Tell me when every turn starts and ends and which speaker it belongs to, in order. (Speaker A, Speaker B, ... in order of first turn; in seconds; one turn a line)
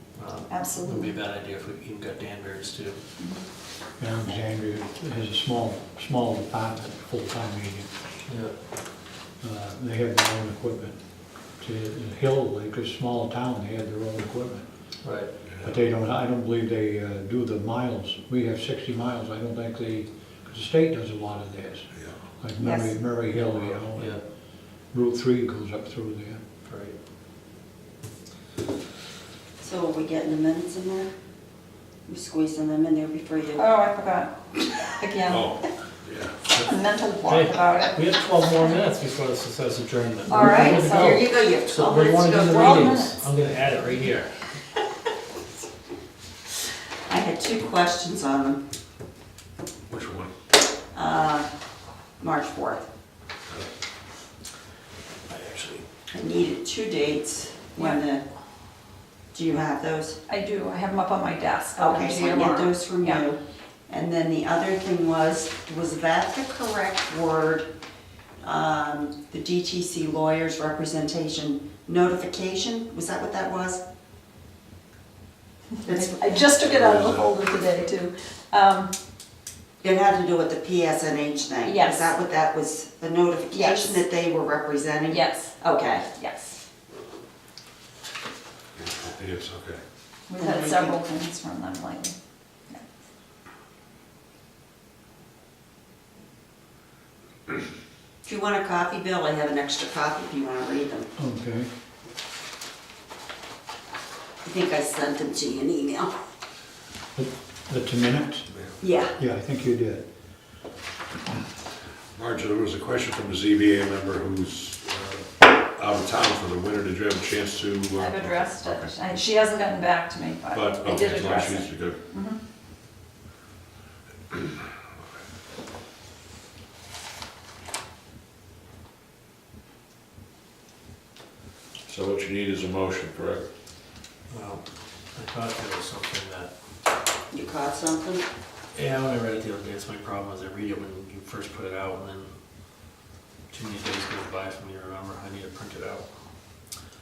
Speaker A: 0.2-3.0
Speaker B: 0.5-1.1
Speaker B: 3.2-3.4
Speaker C: 4.0-7.9
Speaker A: 8.3-8.5
Speaker C: 9.4-11.0
Speaker C: 11.6-14.7
Speaker A: 15.0-15.3
Speaker C: 15.6-21.9
Speaker C: 22.4-24.2
Speaker B: 22.6-22.9
Speaker A: 23.3-24.2
Speaker C: 24.9-26.4
Speaker A: 26.6-27.0
Speaker D: 29.6-31.1
Speaker D: 32.1-33.6
Speaker B: 33.6-35.7
Speaker E: 35.3-36.6
Speaker B: 36.5-38.7
Speaker A: 37.3-44.4
Speaker B: 40.3-41.2
Speaker D: 40.4-43.0
Speaker B: 42.5-43.2
Speaker D: 47.1-48.6
Speaker E: 49.9-50.3
Speaker D: 50.9-51.5
Speaker D: 52.2-52.9
Speaker A: 55.3-55.9
Speaker D: 56.1-58.2
Speaker B: 57.8-58.0
Speaker D: 59.3-60.2
Speaker B: 60.3-63.3
Speaker D: 61.8-67.7
Speaker D: 68.4-73.8
Speaker D: 75.8-76.4
Speaker B: 75.9-78.9
Speaker E: 76.6-77.3
Speaker D: 79.8-86.1
Speaker B: 81.6-82.2
Speaker B: 83.5-84.0
Speaker B: 85.1-86.6
Speaker E: 88.8-89.8
Speaker B: 90.3-92.2
Speaker D: 90.4-91.0
Speaker D: 98.2-101.1
Speaker C: 101.2-101.7
Speaker D: 104.4-106.1
Speaker C: 107.2-108.5
Speaker E: 108.5-108.8
Speaker D: 108.8-109.2
Speaker C: 109.2-110.0
Speaker E: 112.2-118.9
Speaker B: 118.0-122.4
Speaker E: 120.5-122.0
Speaker E: 131.9-133.5
Speaker A: 134.3-136.5
Speaker D: 137.3-138.2
Speaker A: 138.7-142.3
Speaker A: 143.5-146.1